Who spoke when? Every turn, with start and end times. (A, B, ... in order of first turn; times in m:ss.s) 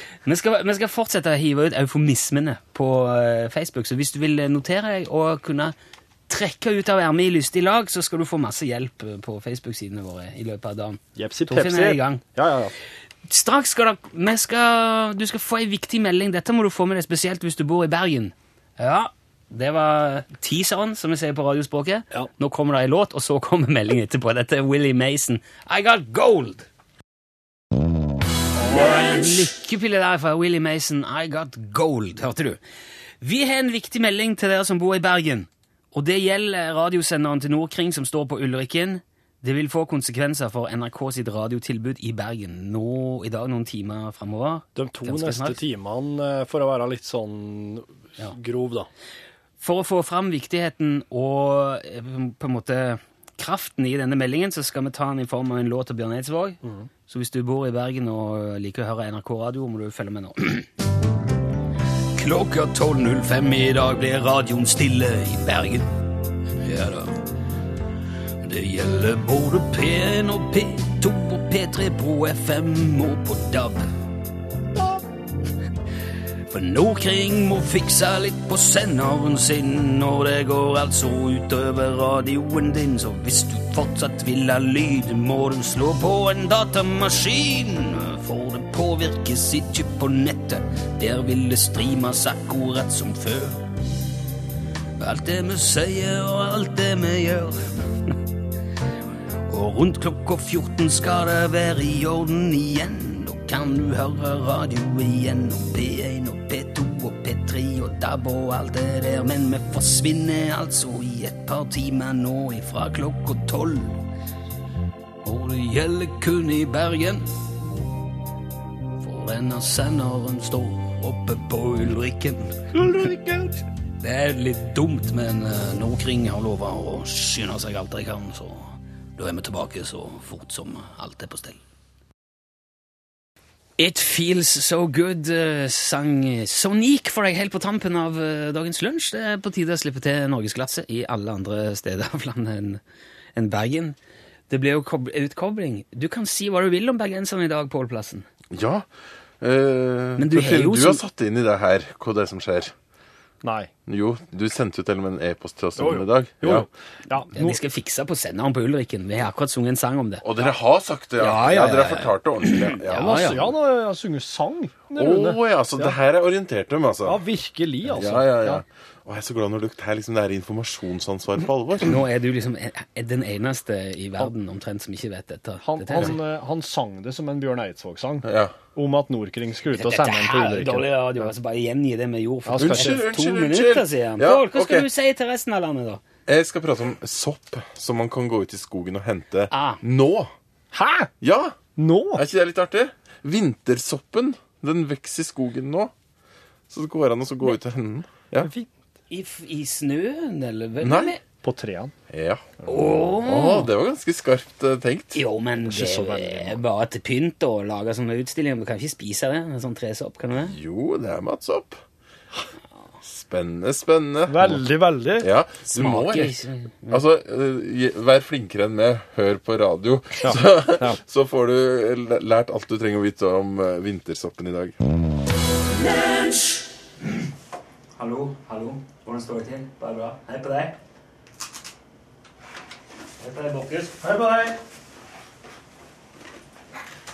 0:00.2-0:05.7 A
0:06.3-0:12.2 A
0:11.2-0:12.7 B
0:13.2-0:26.7 A
0:28.6-0:29.2 B
0:28.6-0:32.6 A
0:33.2-0:45.6 A
0:44.8-0:48.9 B
0:49.6-1:00.7 A
0:56.6-0:56.9 B
1:02.1-1:05.9 A
1:06.5-1:07.2 A
1:08.4-1:13.9 A
1:16.5-1:33.6 A
1:35.0-1:38.1 A
1:39.5-1:54.0 A
1:55.2-1:57.3 A
1:59.0-2:02.7 A
2:02.7-2:03.6 B
2:04.0-2:11.6 A
2:13.8-2:22.8 A
2:23.4-2:24.0 A
2:24.5-2:28.2 A
2:28.5-2:28.9 C
2:29.4-2:32.7 C
2:30.2-2:31.0 A
2:33.4-2:33.7 B
2:33.9-2:36.7 C
2:35.8-2:37.6 B
2:37.3-2:40.2 A
2:40.2-2:43.5 C
2:41.2-2:43.4 A
2:42.9-2:46.0 B
2:45.0-2:47.2 C
2:47.0-2:48.6 B
2:47.8-2:52.0 C
2:51.8-2:56.2 A
2:55.6-3:01.3 B
2:58.2-2:58.5 C
2:59.7-3:06.0 A
3:02.4-3:03.0 B
3:02.5-3:04.9 C
3:06.3-3:10.3 C
3:09.5-3:09.8 A
3:10.7-3:11.1 B
3:11.2-3:11.6 C
3:11.8-3:12.2 B
3:12.2-3:15.9 C
3:16.7-3:18.5 C
3:18.4-3:18.7 B
3:19.1-3:21.2 A
3:20.8-3:21.1 C
3:21.4-3:21.9 B
3:22.1-3:25.2 C
3:22.7-3:23.7 A
3:25.1-3:30.5 A
3:25.6-3:26.6 B
3:30.4-3:31.8 C
3:33.0-3:34.6 C
3:34.3-3:35.3 B
3:35.2-3:36.4 C
3:35.6-3:37.0 A
3:36.9-3:44.8 C
3:40.2-3:41.0 B
3:45.7-3:46.6 A
3:48.0-3:50.8 A
3:53.2-3:54.0 A
3:54.0-3:54.6 B